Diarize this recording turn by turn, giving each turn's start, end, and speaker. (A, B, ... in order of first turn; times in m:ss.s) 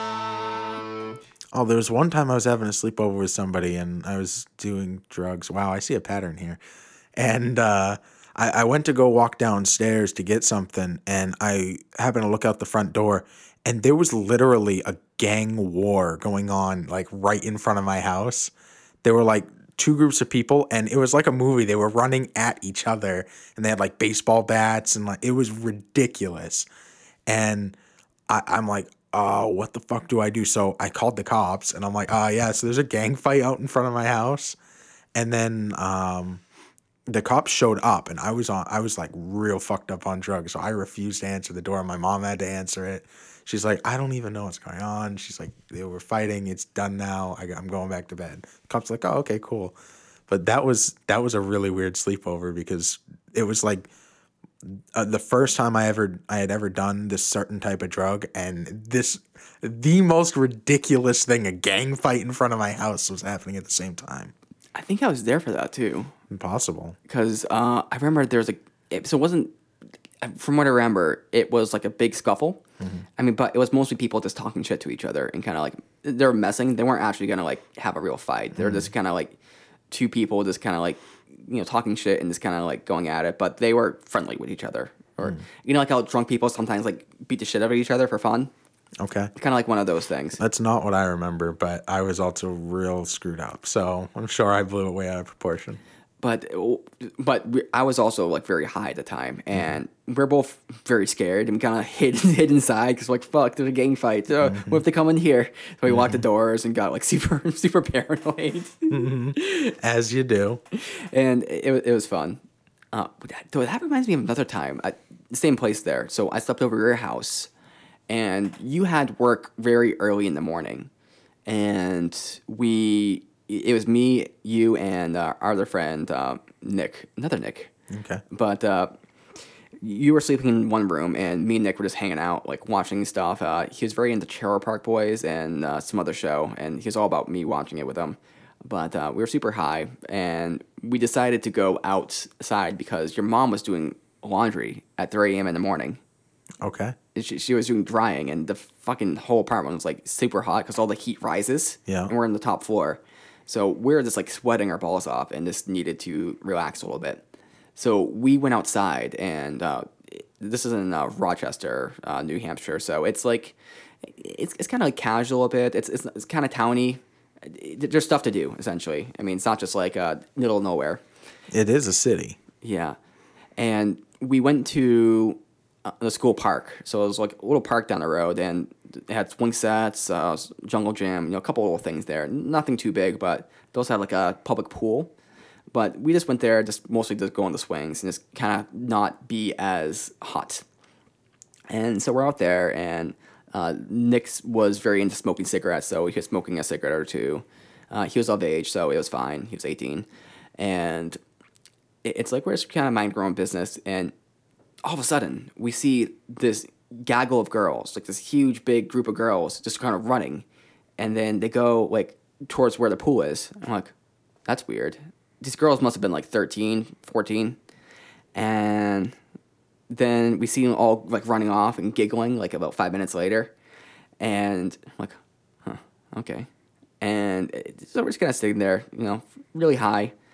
0:01.5-0:06.6 A
0:07.2-0:18.5 A
0:19.0-0:26.7 A
0:27.3-0:27.8 A
0:28.3-0:34.6 A
0:35.2-0:36.4 A
0:37.1-0:49.7 A
0:50.3-0:53.9 A
0:54.6-1:04.3 A
1:04.8-1:06.1 B
1:06.3-1:07.0 A
1:07.1-1:09.5 B
1:10.2-1:12.6 B
1:13.2-1:19.4 B
1:18.6-1:18.9 A
1:19.9-1:28.5 B
1:29.0-1:29.3 A
1:29.4-1:30.4 B
1:30.4-1:35.8 A
1:36.2-1:49.8 B
1:44.4-1:44.8 A
1:45.9-1:46.2 A
1:48.9-1:50.6 A
1:50.7-1:57.5 B
1:58.1-2:00.9 B
2:01.4-2:07.7 B
2:07.9-2:08.2 A
2:08.3-2:08.9 B
2:09.8-2:26.0 B
2:26.6-2:27.0 A
2:27.2-2:37.2 B
2:31.9-2:32.1 A
2:37.8-2:51.0 B
2:51.5-2:52.4 A
2:52.6-2:53.0 B
2:53.6-3:05.1 B
3:05.7-3:10.6 B
3:11.7-3:20.1 B
3:20.6-3:21.2 B
3:22.0-3:24.1 B
3:24.8-3:30.4 B
3:31.0-3:33.9 B
3:34.5-3:37.6 B
3:38.3-3:39.2 B
3:39.9-3:43.5 B
3:44.2-3:46.5 B
3:47.0-3:50.1 B